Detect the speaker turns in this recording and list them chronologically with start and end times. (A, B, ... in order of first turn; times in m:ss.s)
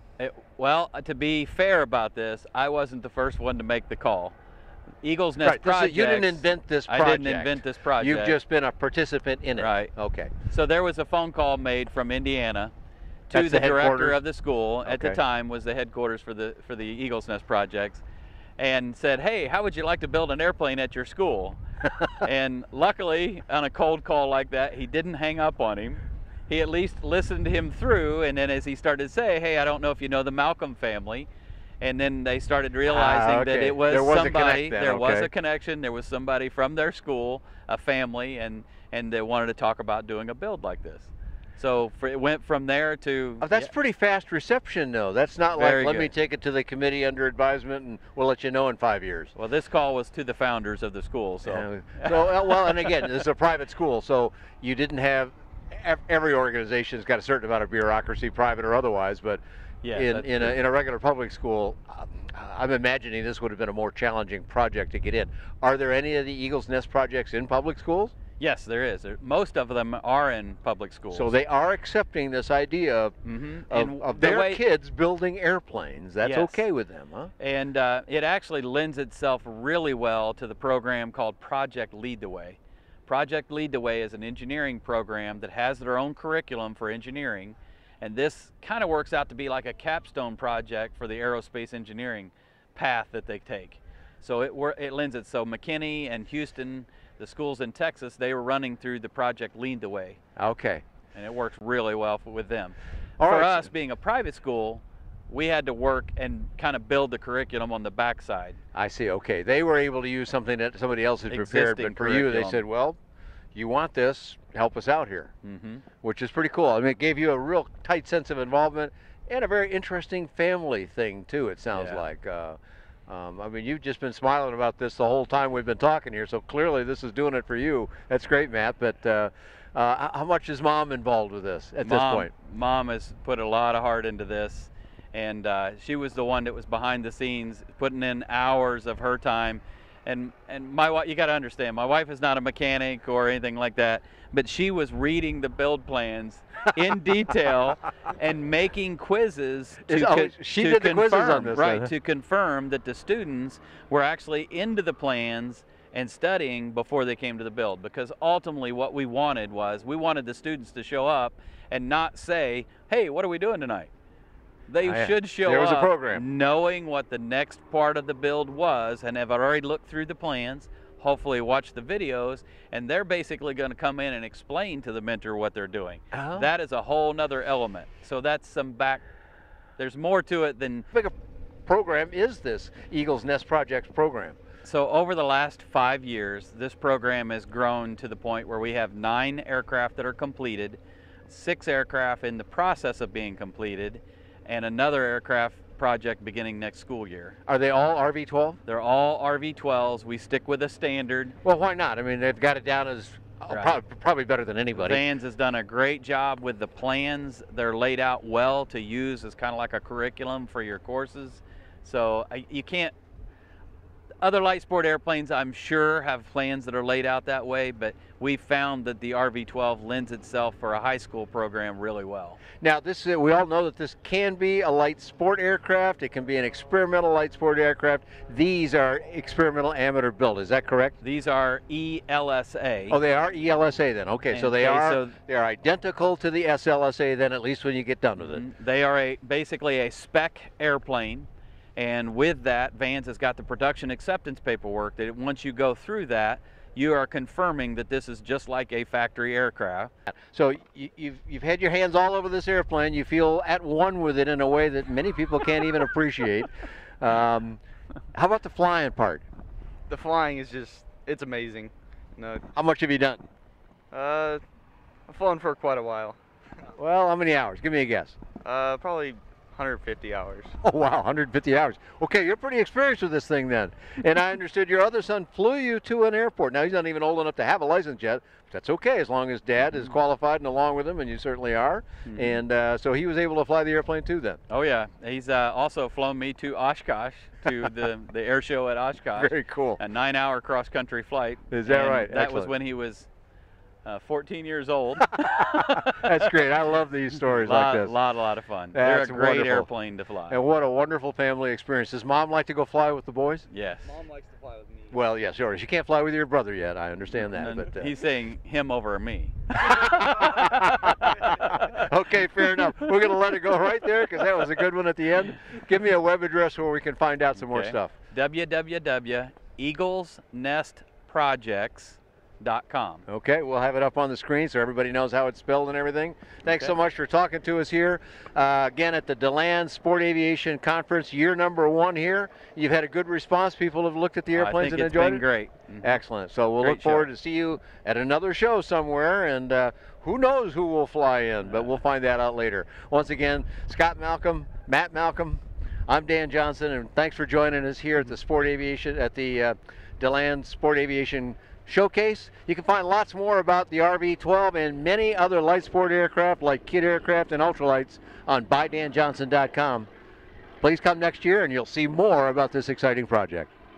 0:00.2-0:04.3 A
0:05.0-0:08.4 A
0:05.4-0:10.3 B
0:09.6-0:09.9 A
0:10.5-0:12.7 A
0:13.3-0:18.0 A
0:13.3-0:14.2 B
0:14.8-0:15.2 B
0:18.6-0:21.6 A
0:22.2-0:31.3 A
0:31.8-0:43.7 A
0:32.9-0:35.3 B
0:43.4-0:49.3 B
0:45.5-0:46.1 A
0:49.3-0:53.0 A
0:51.4-0:59.4 B
0:59.8-1:00.6 A
0:59.9-1:08.1 B
1:08.4-1:11.3 A
1:11.1-1:13.1 B
1:13.2-1:14.6 A
1:13.7-1:17.3 B
1:16.2-1:16.6 A
1:17.4-1:40.2 A
1:40.4-1:40.8 B
1:41.1-1:48.6 A
1:43.2-1:43.7 B
1:48.7-1:53.0 B
1:51.3-1:52.6 A
1:53.5-1:55.3 B
1:55.4-1:55.8 A
1:56.0-2:12.3 B
2:01.7-2:02.0 A
2:11.8-2:43.9 A
2:29.8-2:31.9 B
2:44.7-2:59.0 A
2:44.8-2:46.2 B
2:56.1-2:56.5 B
2:59.8-3:00.9 A
3:01.6-3:04.4 B
3:04.6-3:17.4 A
3:17.5-3:18.6 B
3:18.6-3:21.4 A
3:21.4-3:25.0 B
3:23.5-3:23.8 A
3:24.7-3:32.9 A
3:34.2-3:42.4 A
3:42.6-3:51.0 B
3:51.0-3:53.0 A
3:52.9-3:58.4 B
3:54.3-3:55.2 A
3:58.2-4:09.9 A
4:10.1-4:17.6 B
4:18.1-4:19.2 B
4:19.9-4:22.4 C
4:22.5-4:23.2 B
4:23.9-4:24.4 C
4:25.1-4:26.2 C
4:26.7-4:28.2 B
4:28.4-4:30.5 C
4:30.6-4:44.4 B
4:42.1-4:42.4 A
4:44.5-4:53.1 A
4:49.1-4:49.8 B
4:51.5-4:52.5 B
4:53.8-4:56.4 A
4:55.3-4:58.0 B
4:57.3-5:00.4 A
4:58.7-4:59.7 B
5:00.3-5:03.4 B
5:03.5-5:03.9 A
5:03.8-5:05.0 C
5:04.9-5:07.9 B
5:07.2-5:11.8 A
5:09.6-5:17.9 B
5:17.4-5:23.0 A
5:23.1-5:35.2 B
5:26.4-5:26.7 A
5:34.3-5:36.0 A
5:35.8-5:59.9 B
5:36.6-5:37.1 A
6:00.6-6:03.5 B